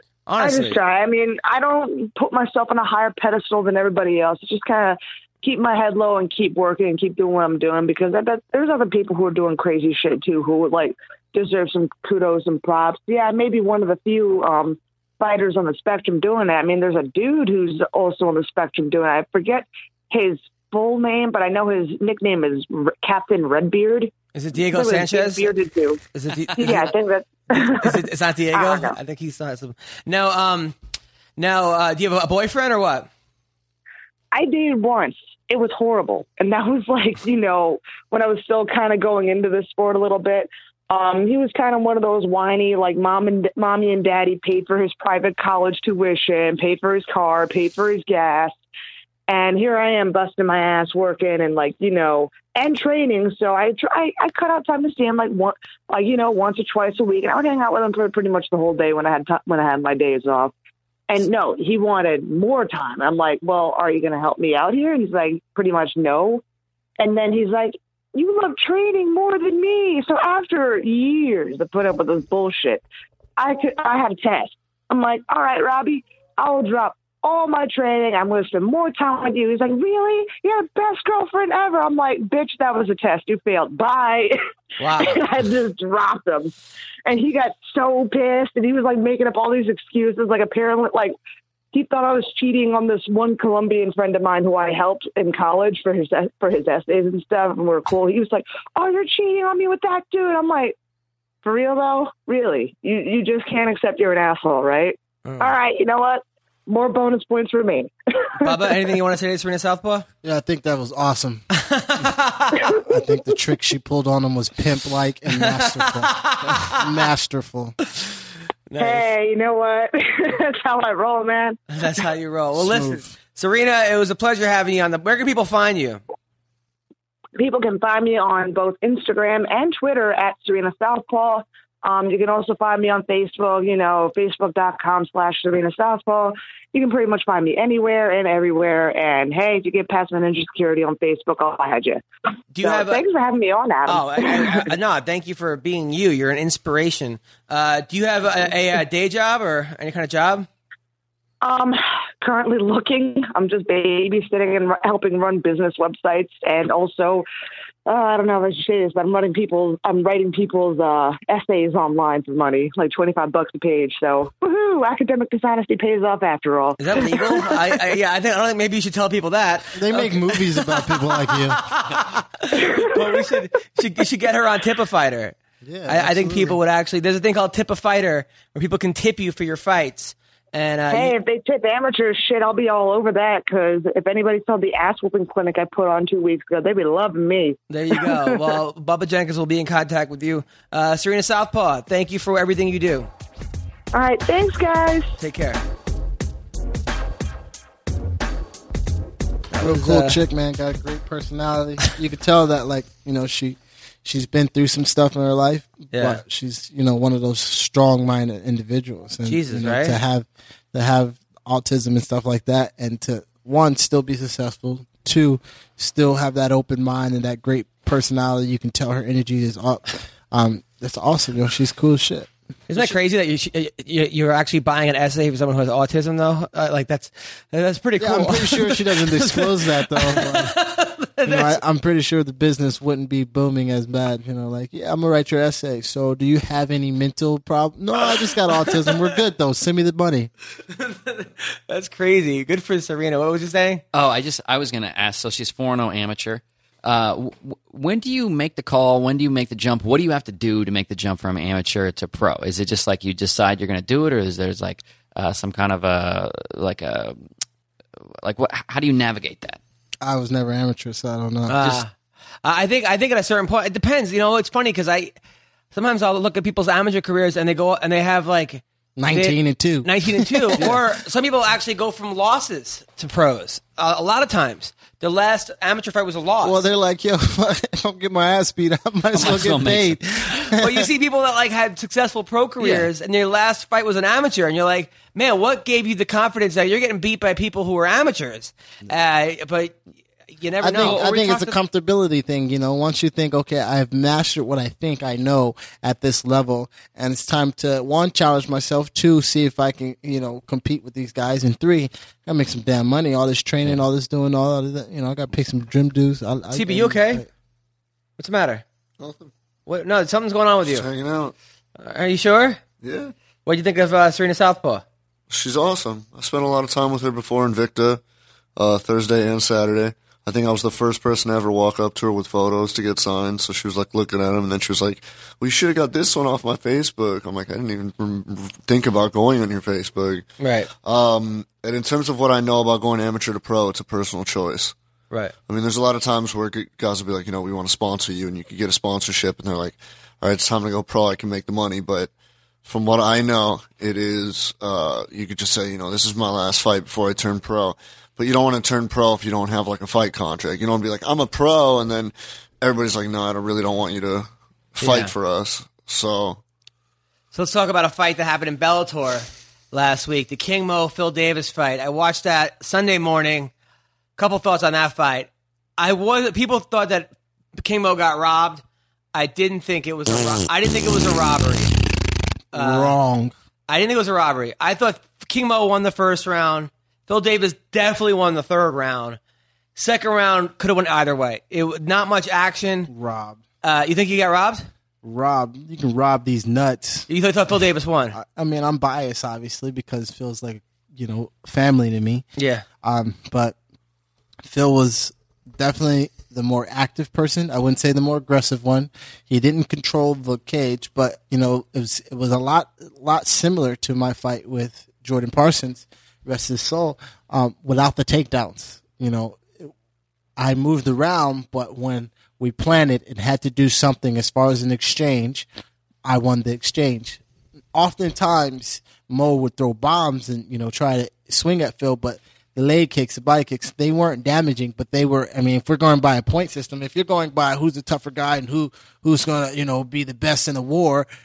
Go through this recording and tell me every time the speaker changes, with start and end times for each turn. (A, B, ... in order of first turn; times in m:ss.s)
0:00.3-0:00.8 A
0:00.4-0:26.0 B
0:24.3-0:25.5 A
0:26.1-0:26.9 A
0:26.6-0:29.0 B
0:27.5-0:30.8 A
0:31.4-0:33.1 A
0:34.3-0:48.6 B
0:49.3-1:00.5 B
1:01.1-1:06.4 B
1:07.0-1:12.8 B
1:13.4-1:26.5 B
1:24.8-1:25.2 A
1:27.1-1:31.1 B
1:31.7-1:40.8 B
1:41.4-1:48.8 B
1:45.2-1:45.5 A
1:48.4-1:50.1 A
1:50.2-1:51.4 C
1:51.5-1:52.7 A
1:52.7-1:57.8 C
1:55.4-1:56.9 A
1:58.7-1:59.1 A
1:58.8-2:01.6 B
2:01.7-2:06.0 A
2:02.6-2:03.1 C
2:07.4-2:22.0 B
2:22.5-2:23.0 A
2:22.6-2:24.7 B
2:23.9-2:30.5 A
2:31.4-2:37.2 B
2:37.9-2:47.8 B
2:46.8-2:55.4 A
2:49.7-2:51.7 C
2:52.6-2:53.2 B
2:55.6-2:56.6 C
2:55.9-3:01.2 A
3:00.9-3:08.5 B
3:07.7-3:13.1 A
3:13.9-3:15.2 B
3:15.2-3:15.6 A
3:19.5-3:20.2 A
3:19.6-3:42.8 C
3:25.9-3:26.2 A
3:29.2-3:30.0 A
3:42.7-3:51.6 A
3:48.0-3:50.6 C
3:51.2-4:00.3 C
4:00.7-4:03.8 A
4:03.9-4:17.2 D
4:18.2-4:19.6 D
4:20.0-4:21.8 C
4:21.5-4:21.9 A
4:22.4-4:25.2 A
4:25.7-4:36.6 A
4:29.0-4:30.8 C
4:36.4-4:40.9 C
4:39.1-4:40.1 D
4:40.5-4:49.8 A
4:42.6-4:42.9 D
4:50.3-4:51.6 A
4:50.6-5:07.3 C
5:06.5-5:07.2 A
5:08.2-5:08.6 A
5:09.0-5:09.3 E
5:09.6-5:10.9 A
5:10.6-5:11.3 E
5:11.8-5:12.6 A
5:12.8-5:13.1 E
5:13.4-5:14.8 A
5:15.3-5:18.0 E
5:18.6-5:30.2 E
5:30.4-5:30.7 A
5:30.8-5:34.8 E
5:35.5-5:42.1 E
5:42.6-5:56.4 E
5:54.8-5:55.1 A
5:57.3-6:03.5 A
6:04.2-6:08.6 A
6:09.1-6:11.8 A
6:12.5-6:12.9 A
6:12.5-6:13.3 C
6:13.7-6:19.2 A
6:19.8-6:22.9 A
6:22.9-6:23.4 C
6:23.6-6:24.7 A
6:25.0-6:27.1 C
6:27.1-6:28.2 A
6:28.1-6:32.2 C
6:32.4-6:32.6 A
6:32.8-6:33.6 C
6:34.4-6:49.7 C
6:50.4-6:55.5 C
6:56.0-6:57.2 C
6:57.7-7:11.1 C